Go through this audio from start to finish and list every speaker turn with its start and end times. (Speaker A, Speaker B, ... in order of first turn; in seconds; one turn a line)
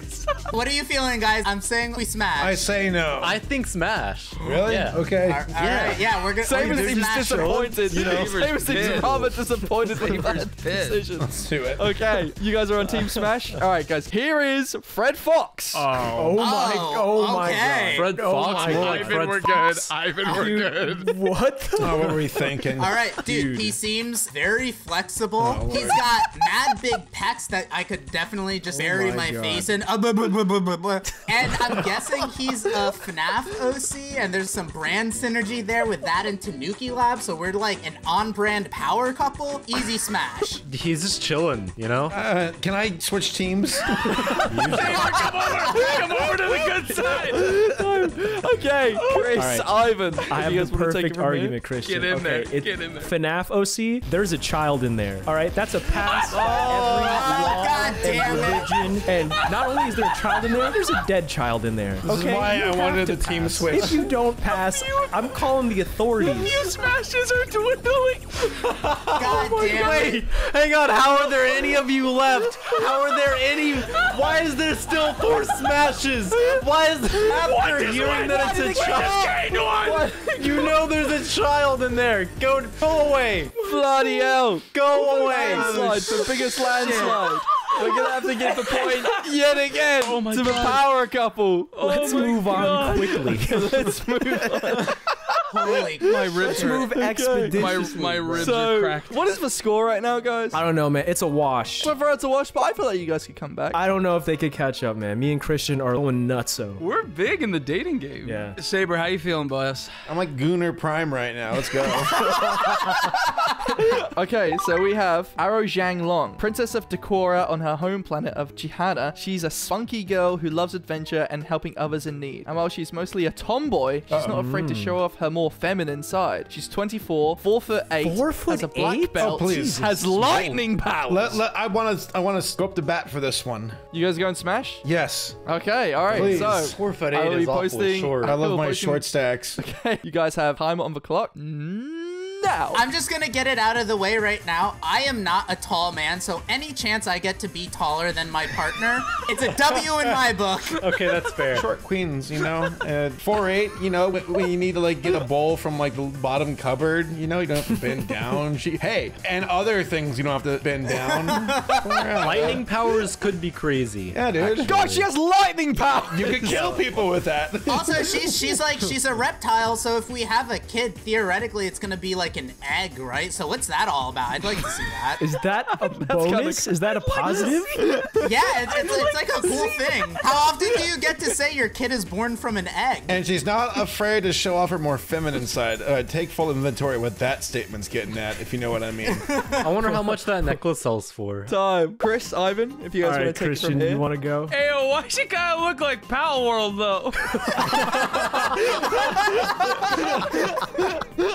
Speaker A: 0.5-2.6
Speaker B: 2.4-3.4
Speaker C: 3.2-5.2
Speaker D: 4.4-4.7
Speaker B: 4.4-5.5
Speaker A: 5.2-7.8
Speaker E: 5.6-6.0
Speaker F: 6.4-15.9
Speaker E: 6.5-7.7
Speaker D: 7.9-11.1
Speaker B: 11.2-11.9
Speaker D: 15.7-16.4
Speaker E: 16.1-19.2
Speaker A: 16.4-18.1
Speaker C: 17.8-19.9
Speaker D: 18.3-21.1
Speaker E: 20.2-22.6
Speaker B: 21.8-22.9
Speaker A: 22.8-40.6
Speaker E: 23.2-23.8
Speaker B: 25.4-26.0
Speaker E: 28.7-29.7
Speaker C: 40.6-42.1
Speaker B: 42.1-44.7
Speaker C: 44.5-45.2
Speaker E: 44.5-44.8
Speaker D: 44.6-47.6
Speaker A: 45.2-45.8
Speaker F: 46.9-51.6
Speaker D: 49.0-49.4
Speaker E: 49.3-49.7
Speaker E: 50.3-66.6
Speaker D: 51.8-53.1
Speaker D: 56.0-57.0
Speaker C: 56.5-58.5
Speaker A: 57.0-58.9
Speaker D: 58.6-59.5
Speaker B: 62.0-64.1
Speaker D: 64.5-65.3
Speaker D: 66.2-68.7
Speaker C: 68.5-83.5
Speaker A: 69.2-70.2
Speaker D: 72.6-73.0
Speaker D: 73.9-74.3
Speaker D: 74.9-75.4
Speaker D: 77.1-80.9
Speaker F: 83.6-91.9
Speaker C: 84.7-86.6
Speaker D: 85.3-90.9
Speaker E: 85.4-85.7
Speaker D: 91.7-93.4
Speaker E: 91.8-94.0
Speaker F: 92.5-100.6
Speaker A: 95.5-96.3
Speaker D: 96.0-97.0
Speaker E: 96.5-98.7
Speaker D: 97.5-99.4
Speaker E: 100.5-101.9
Speaker F: 101.8-103.8
Speaker E: 103.7-106.8
Speaker D: 106.8-110.1
Speaker E: 108.2-108.6
Speaker B: 110.0-112.3
Speaker F: 114.1-131.4
Speaker B: 124.1-124.4
Speaker E: 124.2-125.0
Speaker E: 128.0-129.9
Speaker B: 129.2-130.6
Speaker B: 131.1-133.8
Speaker F: 133.9-134.8
Speaker B: 134.8-135.4
Speaker F: 135.4-142.8
Speaker B: 136.1-136.8
Speaker C: 136.1-138.4
Speaker B: 138.2-139.6
Speaker A: 142.7-150.8
Speaker C: 150.8-151.7
Speaker B: 151.5-162.6
Speaker A: 160.9-162.6
Speaker C: 162.2-165.1
Speaker B: 164.1-164.7
Speaker F: 164.6-166.9
Speaker B: 166.1-168.5
Speaker A: 167.7-175.2
Speaker E: 175.2-177.8
Speaker F: 175.9-178.1
Speaker D: 177.1-177.6
Speaker A: 178.2-183.2
Speaker D: 178.7-180.2
Speaker B: 183.1-189.3
Speaker A: 189.1-189.7
Speaker C: 189.6-191.5
Speaker F: 191.5-194.1
Speaker E: 193.0-194.5
Speaker D: 194.5-200.9